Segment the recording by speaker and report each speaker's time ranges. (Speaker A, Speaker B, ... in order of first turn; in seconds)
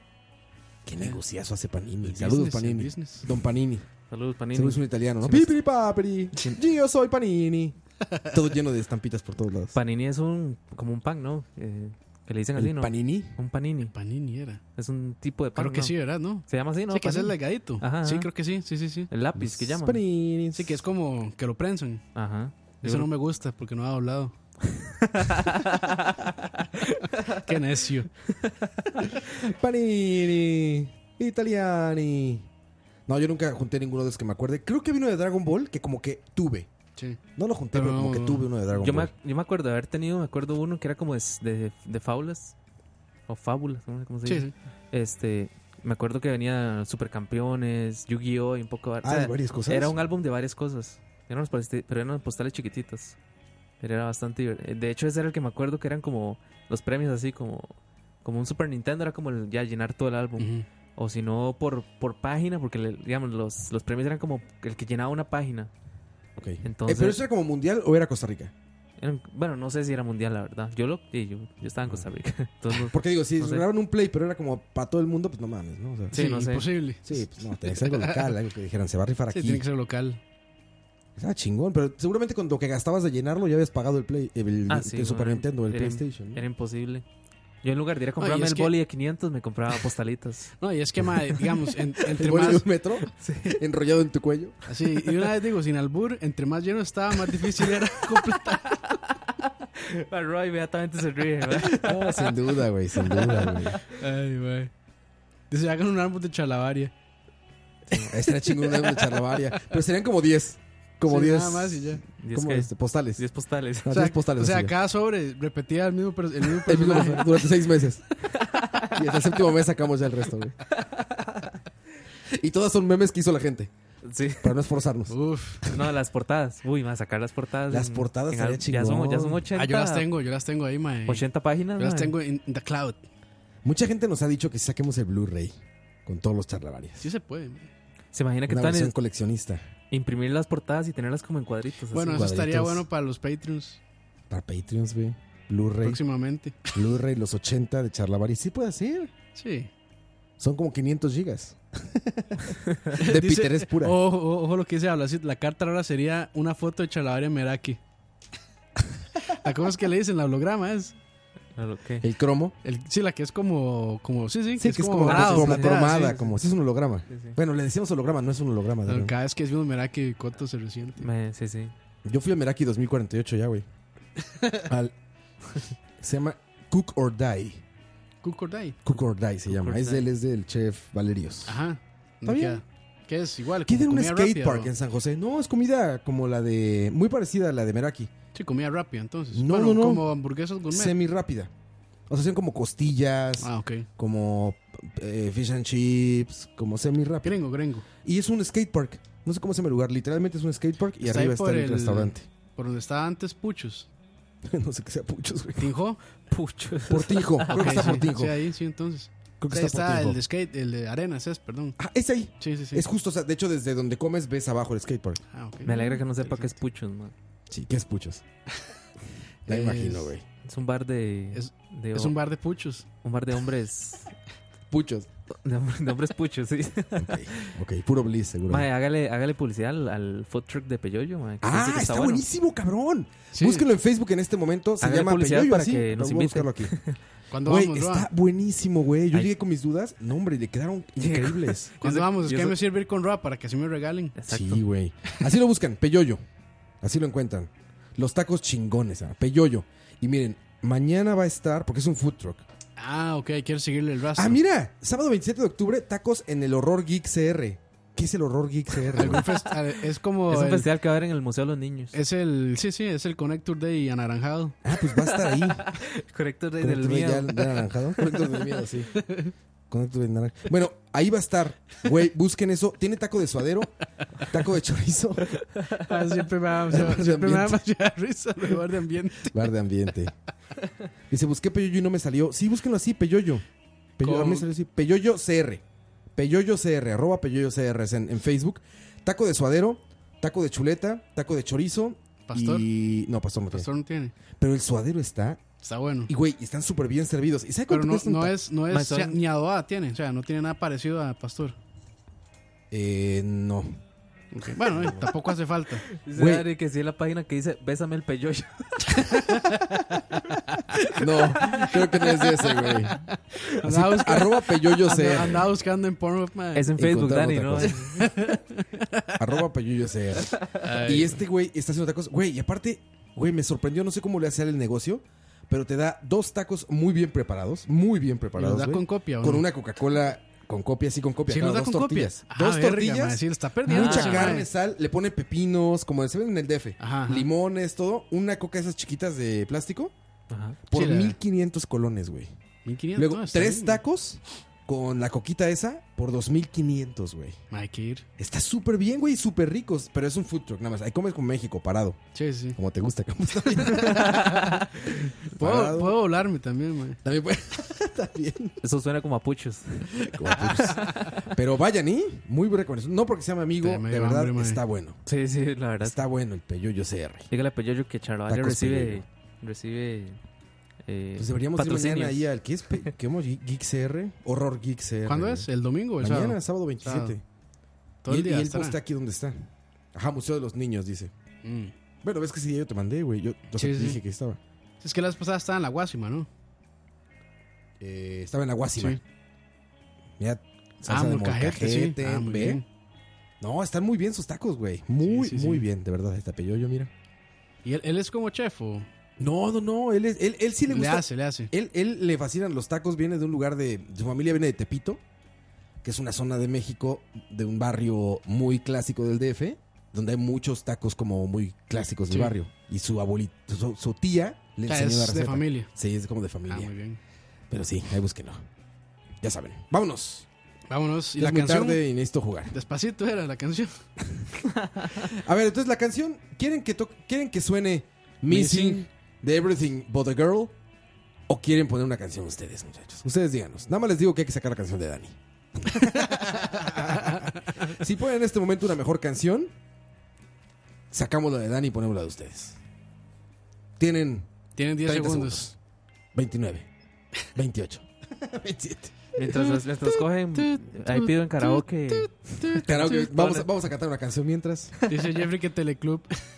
Speaker A: 0.8-3.9, 4.5-9.8, 12.6-13.4, 19.4-20.8, 29.3-32.5, 33.1-36.7, 37.4-39.1, 49.0-50.0, 66.4-68.5, 72.8-76.2, 77.1-79.7, 81.2-86.4, 92.1-94.6, 101.6-103.8, 108.1-113.2, 113.8-114.8, 116.6-118.1, 118.9-120.6, 122.3-123.7, 124.4-125.8, 127.7-129.4, 133.6-137.1, 138.5-139.6, 142.1-142.9, 144.3-146.0, 146.7-149.1, 150.4-154.0, 162.0-162.6, 164.6-169.1, 172.0-173.7, 174.6-174.9, 176.0-177.6, 178.8-181.6, 182.2-182.6, 183.7-188.1, 189.3-190.1, 190.7-191.5, 192.1-197.4, 198.0-202.3, 204.4-205.8, 206.9-208.4, 209.4-210.2, 211.8-215.2, 217.5-218.2, 219.5-220.2, 224.7-225.1, 227.0-228.7, 231.4-236.8, 237.4-241.7, 244.3-246.2, 246.8-252.4, 254.2-259.3, 264.6-265.8, 266.6-268.9, 269.7-275.3, 276.7-277.6, 279.2-280.1, 281.1-283.4, 284.0-285.6, 286.1-293.7, 294.4-295.4, 296.1-298.4, 302.7-303.8, 304.7-305.1, 306.1-306.5, 311.0-313.0, 313.6-315.5, 316.8-317.9, 319.2-339.9, 340.7-342.3, 343.0-347.4, 348.2-352.0, 352.6-356.2, 357.0-358.6, 360.0-365.0, 365.8-367.3, 368.3-369.1, 371.2-375.5, 376.0-377.2, 378.1-381.1, 382.0-384.4, 387.8-389.0, 390.2-392.6, 393.4-396.9, 399.2-405.0, 405.8-416.7, 417.5-418.4, 419.2-420.3, 421.2-422.5, 425.1-430.6, 431.3-439.5, 440.9-442.6, 443.8-445.5, 446.1-446.7, 447.3-449.0, 452.6-454.8
Speaker B: 2.0-3.3, 13.9-14.6, 15.6-19.1, 20.5-22.0, 22.8-24.3, 27.4-28.1, 37.7-38.5, 44.3-44.5, 60.4-60.7, 76.1-78.3, 79.3-80.2, 88.2-88.7, 90.6-92.7, 94.7-99.0, 103.8-104.7, 105.5-106.9, 108.0-109.3, 111.0-112.0, 113.9-117.4, 125.1-125.6, 129.5-131.3, 131.8-133.0, 137.0-137.7, 141.9-143.8, 145.8-146.8, 149.4-149.7, 153.0-157.8, 159.3-161.0, 162.6-166.2, 168.9-171.1, 178.2-178.8, 179.6-179.9, 181.5-184.7, 188.3-191.0, 193.4-193.9, 197.2-197.9, 201.0-203.9, 205.6-206.0, 207.5-211.8, 212.4-212.9, 215.3-216.6, 219.5-220.1, 221.3-222.9, 233.3-233.7, 237.3-238.1, 241.8-244.2, 252.8-254.4, 258.9-260.7, 261.9-264.6, 268.9-269.3, 275.8-279.5, 284.0-284.5, 292.3-292.7, 293.5-294.1, 295.6-296.1, 297.7-301.6, 304.3-305.9, 309.0-316.7, 317.6-319.2, 320.6-321.2, 328.4-329.4, 331.3-334.5, 336.8-337.3, 340.7-341.2, 342.6-343.8, 347.5-348.1, 352.1-352.6, 353.7-354.2, 355.4-357.0, 363.6-364.6, 375.1-377.2, 378.0-378.8, 381.4-381.7, 383.6-384.0, 384.8-386.3, 390.9-392.6, 395.0-395.7, 397.6-398.9, 400.7-401.5, 414.7-415.7, 416.5-417.0, 420.7-421.8, 422.5-423.8, 428.3-428.9, 435.8-437.8, 444.6-445.5, 449.3-449.6, 450.4-453.4, 454.9-456.1
Speaker C: 4.1-5.5, 6.4-6.6, 9.7-13.9, 14.8-18.3, 19.1-20.0, 22.1-23.1, 25.0-27.4, 28.3-28.7, 38.7-42.6, 43.3-53.2, 53.8-65.7, 66.6-67.2, 69.0-73.7, 76.1-76.7, 84.7-87.0, 87.6-90.5, 93.1-93.6, 99.4-102.3, 112.2-114.0, 118.3-119.0, 120.7-121.5, 124.0-124.6, 125.7-130.1, 131.1-132.1, 138.1-138.9, 139.9-142.3, 161.6-162.1, 165.1-166.3, 167.1-167.4, 171.0-171.7, 206.3-208.1, 215.6-217.1, 220.4-222.2, 223.0-224.1, 225.4-227.6, 228.5-232.2, 234.8-237.0, 241.0-242.6, 244.2-244.6, 260.3-262.0, 264.9-268.3, 298.7-299.2, 305.9-309.4, 316.6-318.0, 333.7-334.4, 340.3-340.6, 353.9-354.7, 358.6-361.2, 365.1-366.0, 367.3-370.2, 370.9-372.2, 449.1-453.3, 454.9-455.2